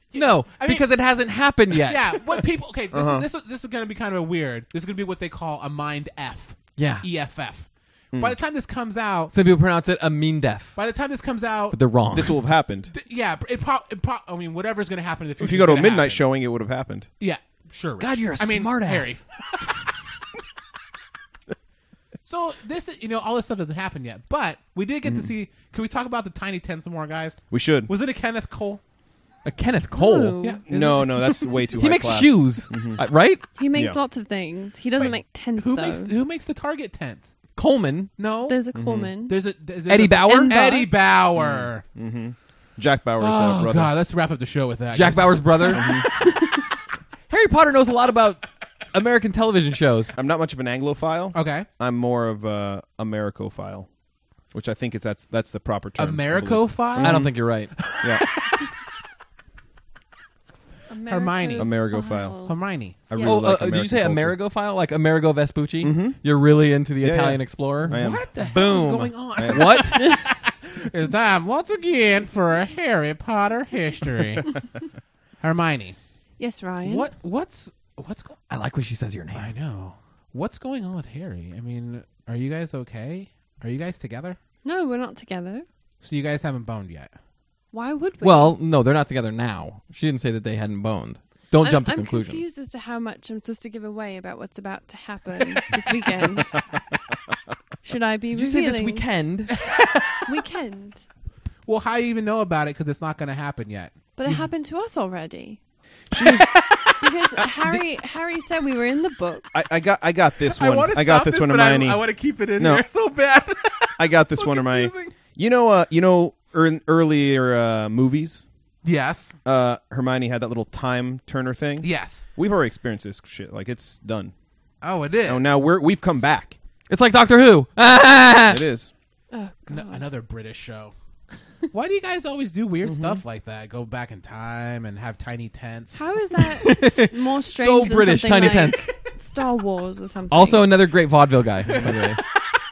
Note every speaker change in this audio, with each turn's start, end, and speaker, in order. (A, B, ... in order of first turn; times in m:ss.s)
0:00.1-0:00.9 A
0:00.1-0:02.2 B
0:01.8-0:09.3 A
0:02.9-0:03.3 C
0:06.8-0:07.0 B
0:09.3-0:10.8 B
0:10.8-0:11.8 A
0:11.7-0:12.4 B
0:12.1-0:12.9 C
0:12.9-0:16.2 A
0:15.4-0:17.1 C
0:17.2-0:19.2 A
0:18.0-0:19.2 B
0:22.2-0:28.8 A
0:25.0-0:25.3 C
0:27.5-0:27.9 C
0:29.4-0:30.4 B
0:29.9-0:30.6 D
0:30.4-0:31.6 A
0:30.7-0:33.0 C
0:31.8-0:33.4 B
0:33.6-0:36.1 D
0:33.7-0:34.0 C
0:35.0-0:37.3 A
0:37.6-0:38.1 B
0:38.2-0:38.6 A
0:38.4-0:39.4 D
0:38.7-0:39.1 C
0:39.3-0:41.8 A
0:39.9-0:40.7 B
0:40.2-0:41.0 D
0:41.3-0:44.0 C
0:43.2-0:46.3 A
0:44.9-0:46.2 B
0:45.7-0:46.0 C
0:47.3-0:50.1 B
0:50.2-0:53.9 C
0:51.3-0:51.7 A
0:54.5-0:57.3 C
0:56.0-0:58.6 A
0:57.0-0:57.7 B
0:58.0-0:58.3 C
1:00.9-1:02.6 D
1:01.1-1:01.8 A
1:01.6-1:04.4 C
1:02.4-1:03.0 A
1:03.1-1:03.4 D
1:03.2-1:10.1 B
1:05.8-1:06.2 C
1:07.0-1:08.3 C
1:07.9-1:14.6 A
1:09.4-1:09.9 C
1:15.4-1:16.0 A
1:16.4-1:17.1 D
1:16.8-1:18.4 A
1:18.5-1:19.5 B
1:19.3-1:24.4 A
1:24.6-1:25.6 D
1:26.0-1:27.1 A
1:27.7-1:28.6 D
1:28.2-1:32.4 B
1:31.6-1:36.6 D
1:37.8-1:39.0 D
1:38.3-1:39.5 B
1:39.5-1:40.3 A
1:40.3-1:41.0 D
1:41.6-1:44.4 A
1:44.2-1:45.6 D
1:46.1-1:46.5 C
1:46.1-1:47.1 A
1:47.0-1:49.8 D
1:49.5-1:52.8 C
1:50.5-1:55.1 A
1:54.0-1:58.4 C
1:58.8-1:59.4 A
1:59.4-2:04.3 C
2:01.8-2:02.3 A
2:04.8-2:05.5 A
2:05.2-2:06.6 C
2:06.9-2:08.6 B
2:08.4-2:08.9 C
2:09.3-2:10.1 D
2:09.7-2:10.9 A
2:11.7-2:16.0 A
2:12.8-2:13.2 C
2:15.9-2:20.8 D
2:16.4-2:18.9 B
2:20.3-2:22.2 B
2:21.7-2:22.0 A